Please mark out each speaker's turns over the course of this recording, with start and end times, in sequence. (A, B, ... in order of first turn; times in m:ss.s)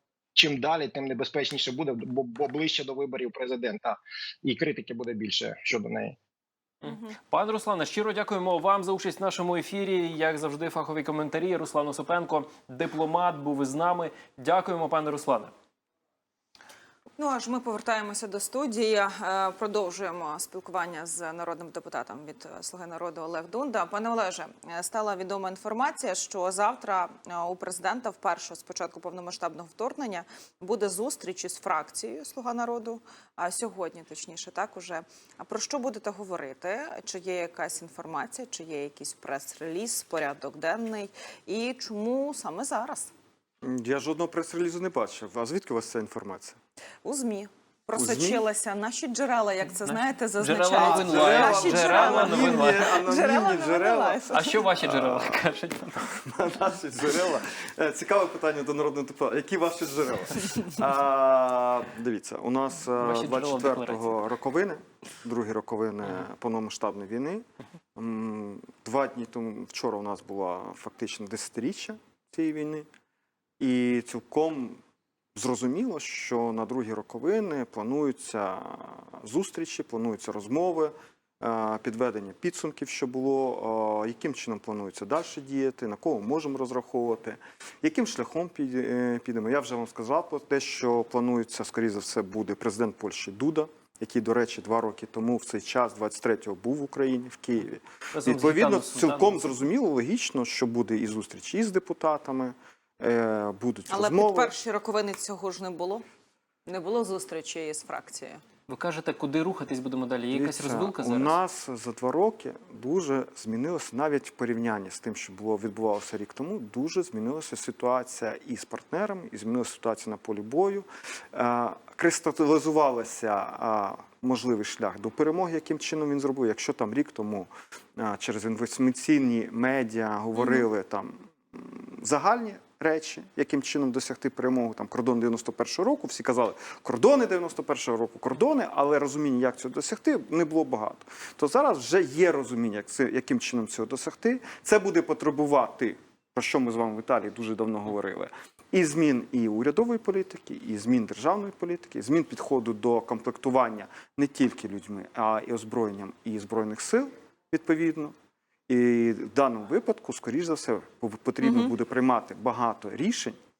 0:00.3-0:06.2 A
0:06.8-0:15.5 B
0:06.8-0:07.1 C
0:17.2-0:43.1 C
0:43.6-0:46.6 D
0:47.0-0:54.6 C
0:47.9-0:48.4 D
0:49.8-0:52.9 B
0:50.7-1:12.9 D
0:54.3-0:56.0 B
1:03.0-1:04.2 B
1:13.6-1:14.8 D
1:15.3-1:44.5 D
1:38.1-1:39.5 B
1:43.9-1:46.0 C
1:46.6-1:48.4 C
1:48.7-1:51.4 B
1:50.3-2:38.1 D
2:10.4-2:10.7 C
2:38.7-2:43.4 D
2:41.4-2:41.7 C